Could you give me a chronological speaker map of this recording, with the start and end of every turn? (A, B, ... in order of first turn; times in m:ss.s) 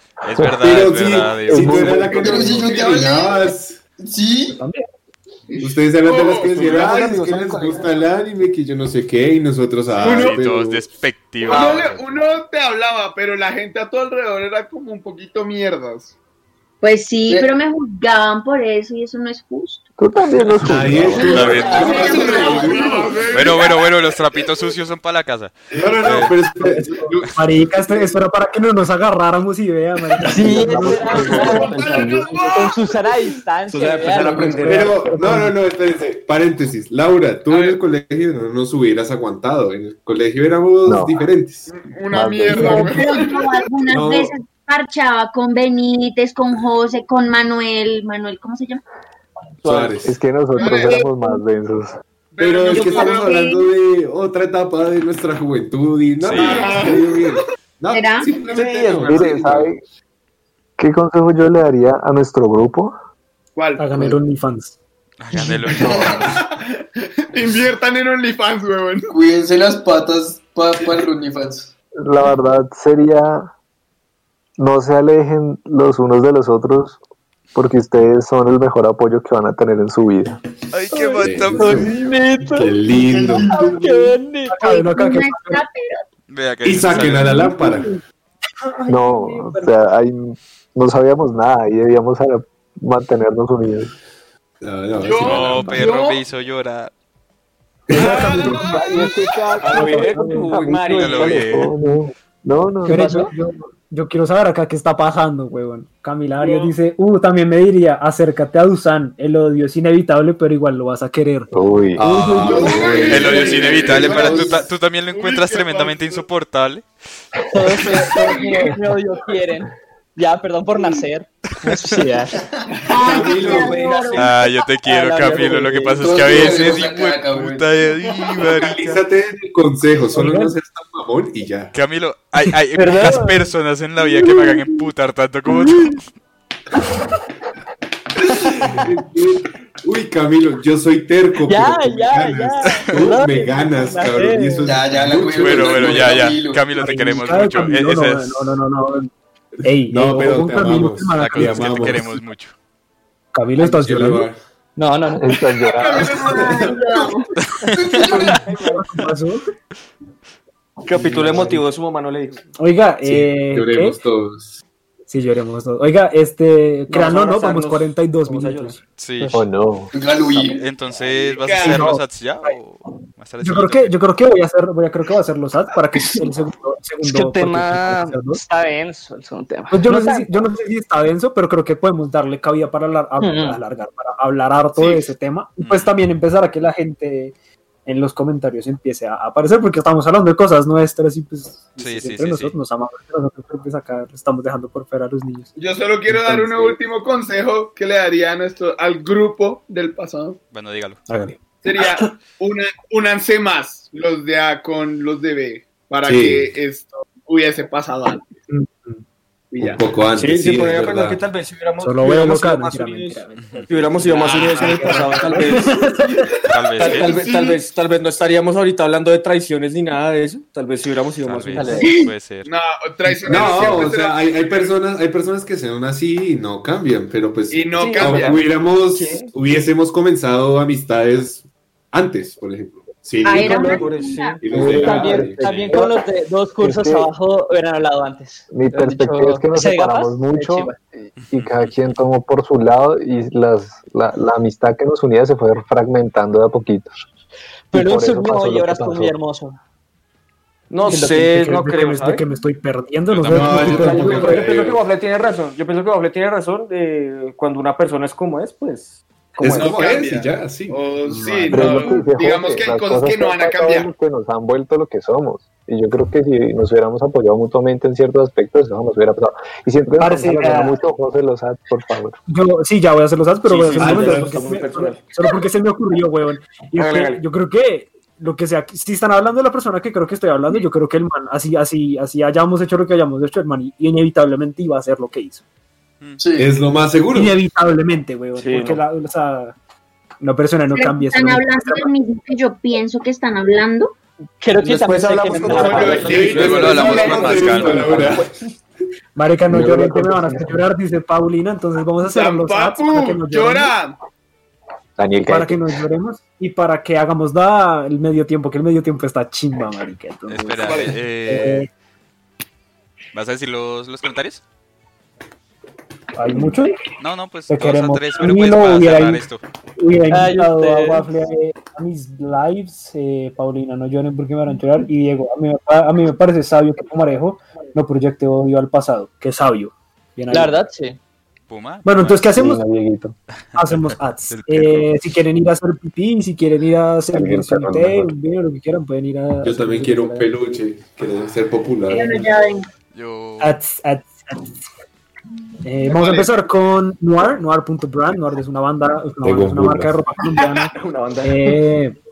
0:00.2-0:02.0 A
0:00.4-0:03.8 B
0:01.5-0:02.2 C
0:02.1-0:03.4 D
0:04.0-0:04.6 D
0:04.5-0:04.8 E
0:05.5-0:06.6 F
0:05.6-0:10.8 B
0:06.4-0:08.1 G
0:09.9-0:12.1 A
0:10.0-0:10.4 F
0:11.5-0:16.1 F
0:11.5-0:11.9 B
0:16.8-0:19.8 H
0:20.0-0:21.6 C
0:20.6-0:23.1 B
0:21.1-0:22.4 A
0:21.2-0:22.6 I
0:21.6-0:24.2 F
0:21.6-0:23.4 H
0:23.3-0:26.3 A
0:25.7-0:27.3 B
0:25.8-0:26.1 F
0:26.6-0:31.6 E
0:30.3-0:32.5 C
0:30.3-0:34.6 I
0:30.3-0:32.2 G
0:31.2-0:33.4 F
0:33.7-0:35.1 G
0:34.5-0:35.5 E
0:34.6-0:41.7 B
0:37.5-0:37.8 F
0:40.8-0:41.2 C
0:41.7-0:43.4 F
0:42.1-0:43.1 C
0:42.5-0:48.8 H
0:43.9-0:44.3 B
0:49.6-0:50.0 I
0:49.6-0:50.2 B
0:50.0-0:52.0 C
0:50.6-0:51.0 F
0:50.6-0:51.3 H
0:52.3-0:53.4 F
0:52.4-0:59.7 B
0:52.7-0:53.7 H
0:56.2-0:56.7 A
0:56.3-0:57.4 F
0:57.9-0:58.4 H
0:58.4-0:59.6 G
0:59.0-0:59.8 C
1:00.8-1:02.9 C
1:03.6-1:03.9 F
1:03.8-1:04.8 E
1:05.2-1:06.4 A
1:05.8-1:06.3 D
1:06.2-1:09.1 F
1:09.1-1:11.7 D
1:12.0-1:13.5 C
1:14.6-1:17.0 C
1:17.5-1:20.4 C
1:20.7-1:22.0 A
1:21.2-1:21.9 B
1:21.6-1:22.8 I
1:22.4-1:23.7 B
1:23.2-1:23.7 D
1:23.5-1:23.8 H
1:23.5-1:24.6 I
1:24.5-1:25.6 E
1:24.6-1:26.0 H
1:26.3-1:27.4 A
1:26.6-1:27.9 B
1:27.4-1:27.7 E
1:28.6-1:29.7 E
1:28.9-1:33.9 C
1:34.6-1:35.8 B
1:35.0-1:36.2 F
1:35.2-1:36.9 A
1:37.9-1:38.6 B
1:37.9-1:40.5 E
1:37.9-1:43.2 C
1:38.0-1:38.8 G
1:39.6-1:41.5 G
1:40.9-1:41.7 A
1:42.8-1:52.9 E
1:42.9-1:43.3 I
1:51.5-1:52.9 C
1:52.0-1:54.6 B
1:52.4-1:56.2 F
1:53.1-1:56.8 A
1:57.5-2:02.4 I
1:58.0-1:58.7 C
2:02.4-2:02.7 D
2:02.9-2:04.3 H
2:02.9-2:03.8 B
2:03.2-2:04.3 G
2:04.1-2:09.0 A
2:04.4-2:06.0 I
2:06.0-2:07.7 D
2:08.5-2:11.7 B
2:10.1-2:10.5 E
2:11.7-2:16.0 A
2:12.7-2:13.5 I
2:14.2-2:14.8 I
2:18.2-2:26.2 B
2:21.4-2:24.7 I
2:22.6-2:23.0 A
2:24.6-2:26.8 D
2:25.3-2:28.4 A
2:26.8-2:29.1 E
2:29.6-2:32.2 E
2:29.9-2:32.2 B
2:31.2-2:32.5 A
2:33.3-2:34.3 E
2:33.6-2:34.4 B
2:34.8-2:35.7 I
2:35.1-2:36.2 C
2:35.7-2:37.1 F
2:35.9-2:37.3 H
2:37.7-2:38.4 D
2:37.7-2:38.9 G
2:38.5-2:39.4 E
2:40.8-2:42.5 G
2:40.9-2:41.6 E
2:42.6-2:44.0 E
2:43.0-2:44.6 B
2:45.1-2:48.8 E
2:46.9-2:48.8 G
2:49.0-2:49.4 A
2:49.3-2:49.9 C
2:49.9-2:50.7 D
2:50.3-2:54.0 A
2:50.9-2:51.9 F
2:51.6-2:52.6 E
2:53.4-2:58.4 E
2:57.0-3:00.3 I
2:59.7-3:07.3 E
3:03.2-3:03.6 I
3:04.8-3:05.0 F
3:05.6-3:06.0 A
3:07.8-3:15.5 E
3:11.8-3:12.5 A
3:15.6-3:20.4 F
3:16.1-3:16.8 E
3:20.5-3:21.0 A
3:21.1-3:22.1 E
3:21.6-3:28.2 F
3:26.0-3:26.5 B
3:28.5-3:29.0 E
3:29.5-3:29.8 F
3:29.6-3:31.2 B
3:30.1-3:35.9 G
3:31.8-3:36.3 E
3:34.2-3:35.4 F
3:36.1-3:37.6 F
3:36.5-3:37.2 A
3:36.8-3:41.9 G
3:41.2-3:42.5 A
3:41.6-3:42.1 H
3:42.4-3:44.7 F
3:43.0-3:43.5 E
3:43.2-3:53.7 B
3:47.5-3:48.3 F
3:47.8-3:48.2 I
3:48.0-3:49.3 G
3:53.2-3:54.4 H
3:53.3-3:55.3 G
3:53.3-3:53.6 I
3:54.4-3:55.8 B
3:54.5-3:56.0 C
3:54.6-4:01.1 I
3:55.4-3:55.7 A
3:56.6-3:57.1 C
3:58.5-4:00.7 C
4:01.2-4:01.7 A
4:01.3-4:06.9 C
4:07.7-4:09.6 I
4:07.7-4:09.1 C
4:10.7-4:12.2 G
4:10.8-4:14.5 E
4:13.1-4:14.0 A
4:13.3-4:14.8 B
4:13.5-4:19.8 G
4:19.4-4:20.8 B
4:19.5-4:23.9 F
4:21.0-4:22.0 E
4:21.5-4:32.1 C
4:30.0-4:30.8 E
4:32.3-4:45.4 E
4:33.4-4:35.1 G
4:33.8-4:34.5 B
4:36.7-4:37.2 G
4:46.2-4:46.5 D
4:46.4-4:47.4 B
4:47.1-4:49.5 E
4:48.4-4:48.8 G
4:50.2-4:51.9 E
4:50.7-4:53.9 H
4:54.4-4:56.5 I
4:54.6-4:58.3 G
4:55.4-4:57.9 F
4:55.9-4:58.3 B
4:56.3-4:58.1 A
4:59.2-5:03.7 E
4:59.5-5:00.6 C
5:02.0-5:04.0 F
5:05.0-5:05.6 C
5:05.2-5:11.7 E
5:10.3-5:11.7 A
5:10.6-5:11.0 F
5:13.1-5:14.4 A
5:16.1-5:16.8 E
5:17.0-5:19.4 A
5:17.5-5:19.2 E
5:19.8-5:30.5 E
5:20.1-5:21.0 I
5:30.3-5:31.0 I
5:31.5-5:32.3 A
5:31.8-5:32.6 E
5:32.3-5:33.1 C
5:33.5-5:40.3 E
5:33.6-5:34.7 A
5:37.1-5:38.1 C
5:39.4-5:42.3 B
5:41.9-5:42.7 H
5:42.9-5:43.6 A
5:43.4-5:44.5 E
5:45.6-5:52.0 E
5:45.8-5:46.3 F
5:49.2-5:50.0 C
5:50.7-5:51.6 G